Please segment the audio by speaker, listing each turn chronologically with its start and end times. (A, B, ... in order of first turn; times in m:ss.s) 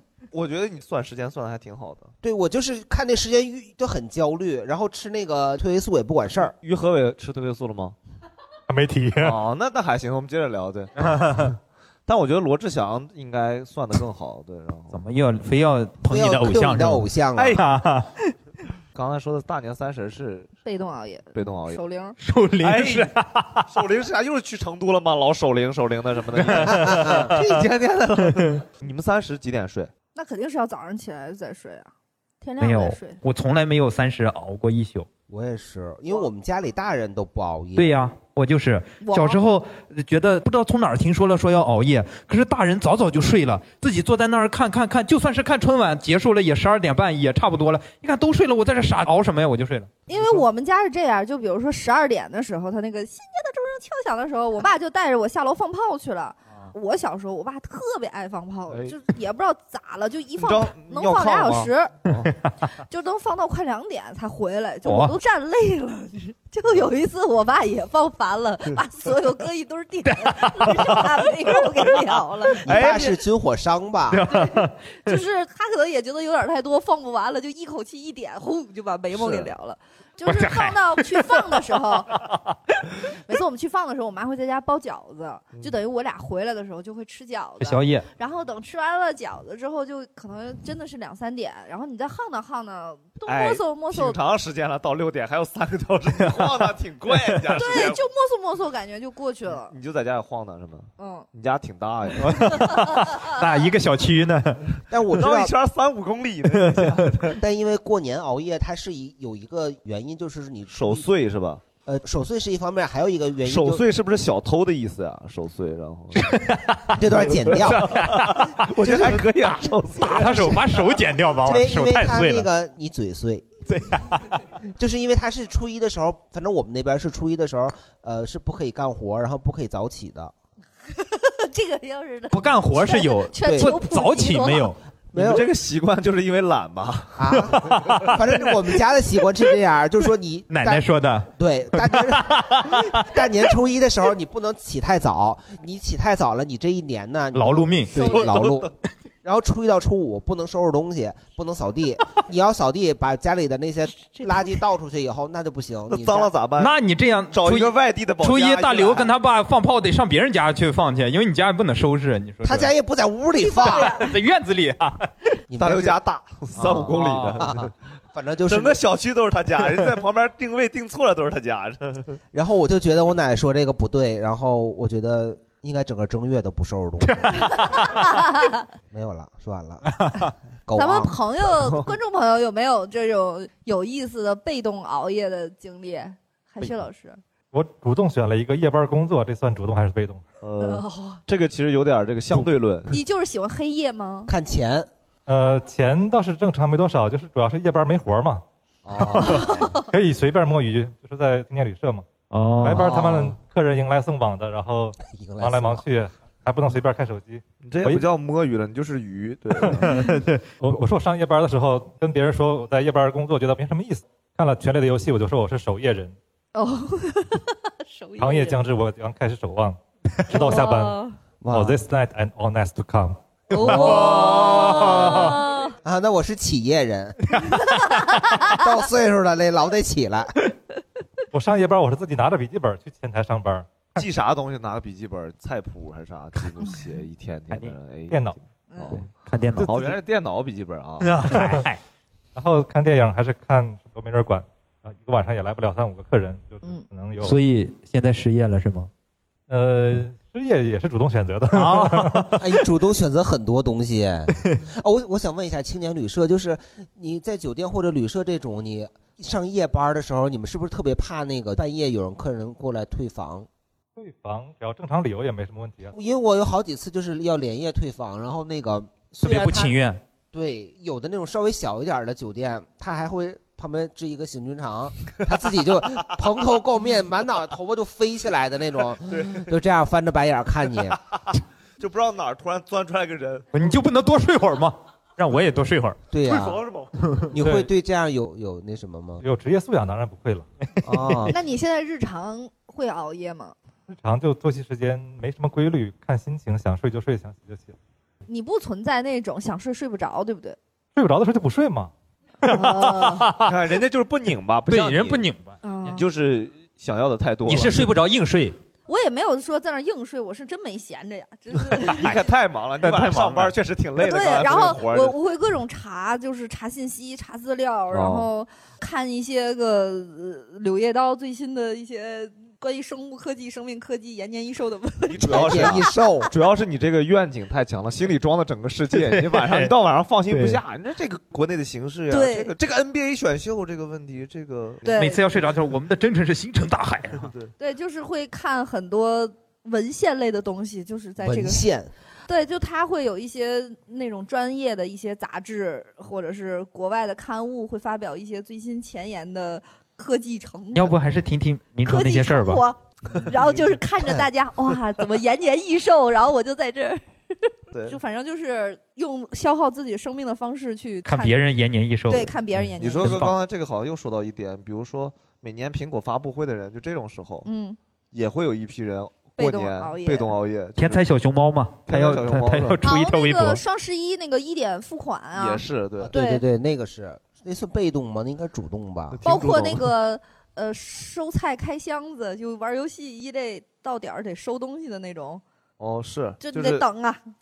0:00.3-0:02.1 A
0:02.2-0:06.6 B
0:06.6-0:08.0 A
0:08.7-0:09.1 C
0:09.2-0:11.5 A
0:11.1-0:11.5 D
0:12.1-0:15.0 A
0:14.9-0:17.1 D
0:16.1-0:17.6 B
0:17.4-0:17.6 A
0:17.6-0:18.1 D
0:18.9-0:20.5 A
0:20.6-0:22.2 E
0:21.4-0:21.8 A
0:22.2-0:23.7 D
0:22.6-0:29.9 A
0:26.4-0:27.4 D
0:26.6-0:27.3 B
0:28.3-0:28.6 D
0:30.2-0:33.2 E
0:32.6-0:35.1 D
0:35.3-0:37.9 B
0:37.8-0:49.9 D
0:39.0-0:39.4 E
0:50.1-1:01.9 E
0:50.1-0:50.4 A
0:58.7-0:59.0 A
1:00.4-1:02.3 A
1:02.9-1:13.2 E
1:04.8-1:05.2 D
1:10.1-1:11.3 D
1:12.6-1:14.3 B
1:14.1-1:15.1 D
1:14.3-1:22.2 E
1:19.1-1:19.5 A
1:20.2-1:21.6 D
1:23.3-1:34.2 E
1:27.6-1:28.1 D
1:33.3-1:38.0 A
1:36.2-1:36.7 D
1:37.2-1:37.6 D
1:37.5-1:39.7 E
1:39.7-1:42.8 A
1:41.0-1:41.3 E
1:42.2-1:44.7 D
1:44.9-1:45.5 B
1:45.1-1:47.4 A
1:46.6-1:47.1 D
1:47.4-1:51.1 B
1:50.7-1:51.6 A
1:51.9-1:53.8 B
1:53.4-1:56.4 A
1:56.2-1:57.0 D
1:56.9-1:58.1 B
1:57.1-2:00.6 A
1:57.5-1:58.7 D
1:58.8-2:00.8 B
2:00.0-2:02.5 D
2:01.4-2:03.5 B
2:03.7-2:04.4 D
2:04.8-2:10.3 B
2:10.9-2:14.8 E
2:12.3-2:14.8 D
2:13.5-2:13.8 B
2:15.1-2:15.4 B
2:15.1-2:17.9 A
2:17.2-2:28.7 B
2:17.6-2:18.2 D
2:20.5-2:23.1 D
2:27.3-2:28.4 D
2:27.9-2:28.7 A
2:29.2-2:36.3 B
2:34.0-2:34.5 E
2:35.9-2:36.7 A
2:36.6-2:42.7 D
2:37.3-2:39.1 A
2:42.4-2:44.0 B
2:43.4-2:44.1 E
2:43.5-2:45.1 D
2:45.5-2:46.0 B
2:45.6-2:47.7 A
2:46.6-2:48.8 B
2:46.9-2:47.5 D
2:48.5-2:52.2 A
2:52.3-2:57.9 B
2:57.1-2:58.0 D
2:57.8-2:58.6 E
2:58.9-3:00.1 B
3:00.0-3:00.3 D
3:00.7-3:01.2 B
3:00.8-3:07.2 E
3:01.6-3:01.9 A
3:07.5-3:10.2 C
3:10.4-3:13.0 A
3:10.6-3:11.2 E
3:12.9-3:14.3 E
3:14.3-3:14.9 B
3:15.3-3:18.4 C
3:18.9-3:19.6 B
3:19.0-3:22.0 C
3:19.3-3:19.8 E
3:22.3-3:22.9 D
3:22.6-3:28.0 C
3:22.7-3:23.3 B
3:25.1-3:25.9 B
3:27.6-3:29.9 A
3:29.6-3:30.1 C
3:30.0-3:30.4 D
3:30.6-3:36.2 C
3:36.6-3:38.6 E
3:38.2-3:44.0 C
3:40.3-3:41.2 E
3:41.4-3:41.7 B
3:43.5-3:45.8 E
3:43.6-3:45.3 B
3:43.7-3:45.3 D
3:45.8-3:47.4 B
3:48.3-3:50.3 B
3:51.3-3:53.9 C
3:54.0-4:01.2 A
3:58.1-3:58.4 C
3:58.7-3:59.0 E
3:59.0-3:59.9 D
4:01.0-4:01.8 D
4:01.3-4:01.6 C
4:02.4-4:07.4 C
4:07.2-4:08.9 D
4:09.5-4:12.4 C
4:11.5-4:12.4 D
4:12.4-4:23.5 B
4:24.0-4:25.9 C
4:25.9-4:29.7 B
4:29.2-4:30.0 D
4:30.3-4:41.0 B
4:39.1-4:39.5 A
4:40.9-4:43.5 A
4:43.5-4:46.0 D
4:46.1-4:46.6 B
4:46.3-4:47.0 A
4:47.0-4:47.3 D
4:47.3-4:49.2 B
4:47.4-4:47.7 C
4:49.2-4:50.5 C
4:50.8-4:51.4 B
4:51.3-4:53.6 E
4:53.9-4:57.8 C
4:58.3-5:00.6 E
5:01.0-5:01.9 C
5:02.4-5:03.6 D
5:02.5-5:03.3 E
5:03.4-5:05.3 A
5:04.7-5:05.6 D
5:05.6-5:06.0 E
5:06.0-5:07.9 A
5:07.5-5:08.6 D
5:08.9-5:12.1 E
5:11.8-5:15.2 A
5:11.8-5:12.2 D
5:12.8-5:13.5 D
5:14.0-5:25.9 E
5:17.9-5:18.3 A
5:25.1-5:35.5 A
5:25.2-5:26.3 B
5:29.0-5:29.7 D
5:30.3-5:30.6 D
5:32.1-5:32.5 E
5:34.8-5:35.2 E
5:35.0-5:37.3 D
5:37.1-5:37.5 A
5:37.6-5:41.6 E
5:41.2-5:41.9 B
5:42.3-5:51.0 E
5:50.7-5:52.6 D
5:51.8-6:01.4 E
5:57.7-5:58.0 A
6:01.1-6:02.4 D
6:02.1-6:03.2 E
6:02.8-6:07.5 A
6:03.0-6:03.4 D
6:07.4-6:07.8 E
6:08.1-6:11.0 A
6:09.4-6:10.4 E
6:10.8-6:13.6 D
6:11.9-6:12.8 A
6:12.8-6:16.4 E
6:15.4-6:16.1 A
6:16.0-6:19.2 B
6:19.1-6:19.9 A
6:19.2-6:25.4 E
6:25.8-6:26.9 A
6:26.4-6:27.2 E